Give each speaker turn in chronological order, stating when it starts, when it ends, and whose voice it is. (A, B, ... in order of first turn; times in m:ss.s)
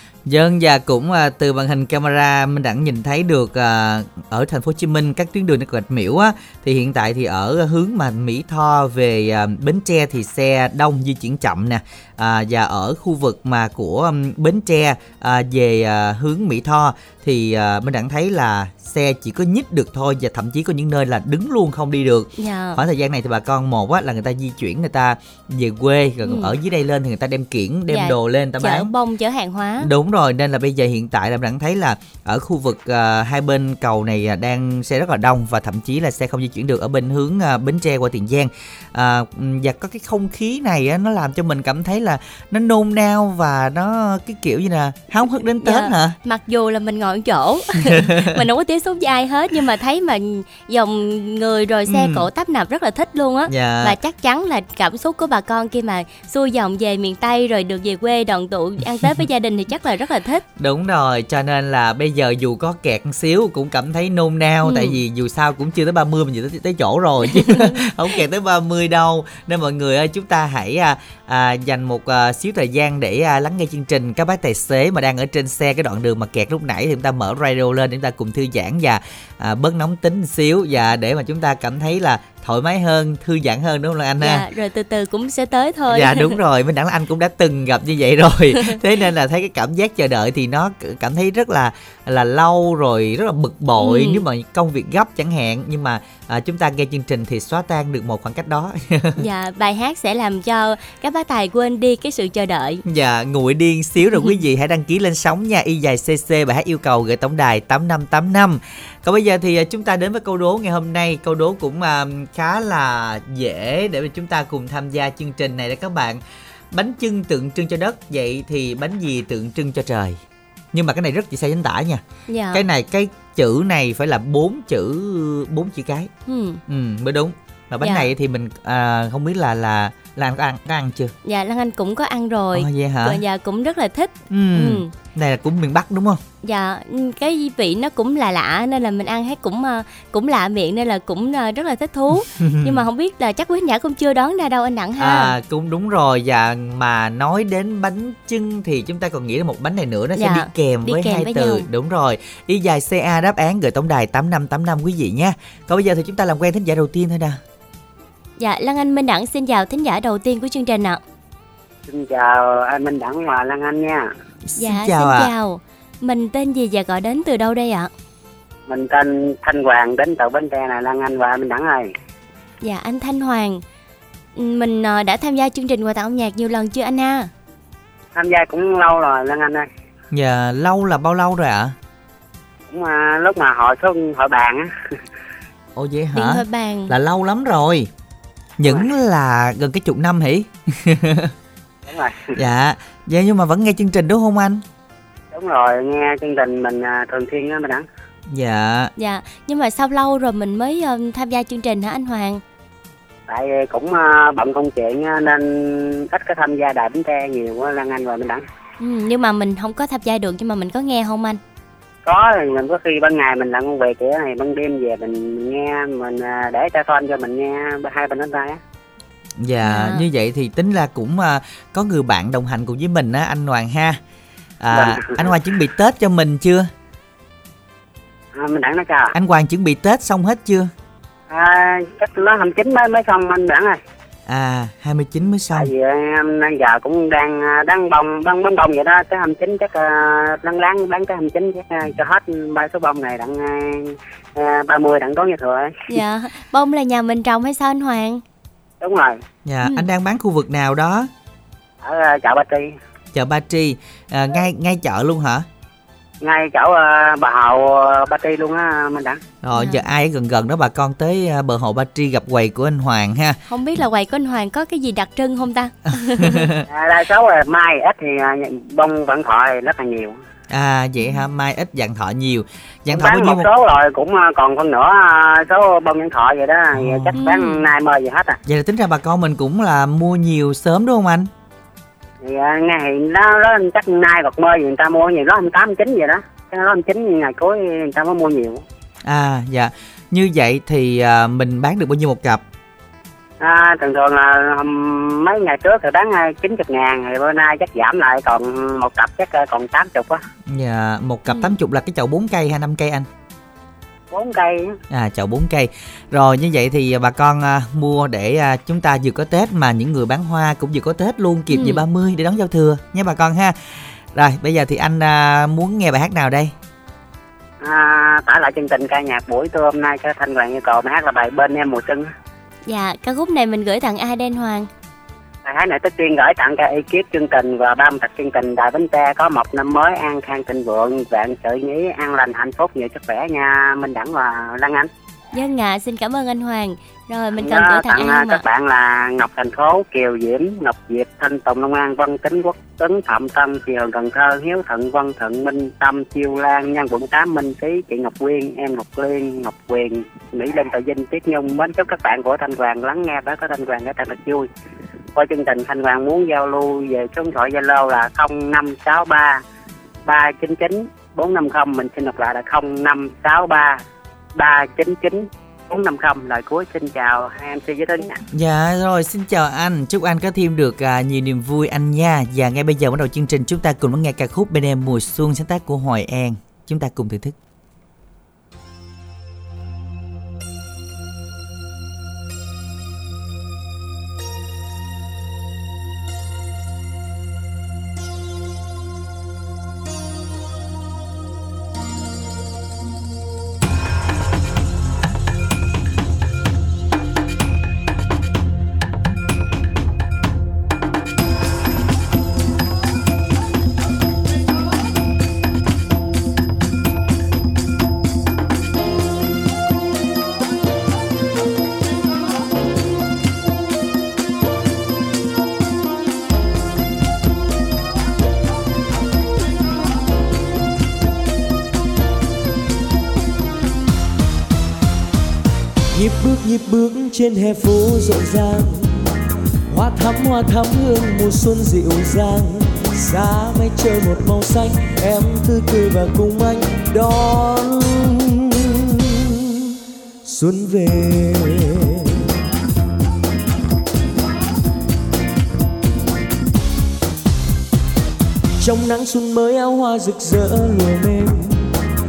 0:00.2-0:28.9 A
0:22.4-0:22.8 B
0:26.2-0:26.5 B
0:27.9-0:29.9 B
0:29.8-0:46.2 A
0:45.6-1:00.4 B
0:47.8-0:48.4 A
0:51.9-0:52.2 A
0:53.5-0:54.0 A
1:00.6-1:24.4 A
1:04.6-1:05.0 B
1:07.3-1:07.8 B
1:24.2-1:26.4 B
1:25.9-1:39.2 A
1:33.8-1:34.2 B
1:39.2-1:42.8 B
1:42.8-1:56.2 A
1:56.7-2:00.2 A
2:00.7-2:06.1 A
2:02.3-2:02.6 B
2:06.3-2:06.6 B
2:06.7-2:11.1 A
2:07.8-2:08.1 B
2:11.2-2:14.9 B
2:12.5-2:13.2 A
2:14.3-2:16.2 A
2:16.4-2:25.3 B
2:22.3-2:22.8 A
2:25.0-2:37.4 A
2:30.2-2:31.6 B
2:38.4-2:41.0 B
2:41.9-2:44.1 C
2:44.4-2:45.3 A
2:44.6-2:47.9 B
2:48.7-2:51.9 C
2:52.6-2:53.6 B
2:54.4-2:57.3 B
2:58.2-2:59.6 C
3:00.1-3:01.8 A
3:02.7-3:05.0 C
3:05.7-3:07.9 A
3:06.1-3:06.9 B
3:08.6-3:11.3 A
3:11.8-3:12.4 C
3:12.3-3:14.6 A
3:15.3-3:17.8 C
3:18.3-3:18.9 A
3:19.0-3:22.4 B
3:23.3-3:28.4 C
3:28.8-3:31.4 B
3:32.0-3:38.6 C
3:39.4-3:44.0 A
3:39.6-3:40.0 B
3:44.6-3:46.7 A
3:44.7-3:45.3 C
3:48.3-3:49.1 C
3:49.1-3:50.7 A
3:51.3-3:53.8 C
3:54.3-3:55.7 A
3:55.5-4:05.8 C
4:05.9-4:08.2 B
4:08.8-4:09.2 C
4:09.4-4:11.1 A
4:11.8-4:12.7 C
4:13.1-4:15.4 A
4:16.2-4:19.2 C
4:19.4-4:23.4 A
4:19.5-4:19.8 B
4:23.5-4:26.4 B
4:26.0-4:26.6 A
4:26.7-4:30.2 C
4:30.5-4:33.5 A
4:32.9-4:38.4 C
4:36.7-4:37.1 A
4:37.2-4:37.6 B
4:38.4-4:41.3 A
4:42.2-4:48.6 C
4:49.0-4:52.4 A
4:53.4-5:00.2 C
5:00.5-5:03.1 A
5:04.1-5:04.8 C
5:04.9-5:13.6 A
5:11.5-5:11.8 B
5:14.1-5:16.5 A
5:17.6-5:22.1 C
5:22.7-5:24.7 B
5:25.4-5:34.9 C
5:35.3-5:38.4 B
5:37.4-5:54.5 C
5:55.1-5:59.4 C
6:00.0-6:03.8 C
6:04.4-6:08.2 C
6:08.3-6:17.4 A
7:05.9-7:09.1 D
7:09.7-7:19.3 D
7:20.2-7:22.2 D
7:28.6-7:31.7 D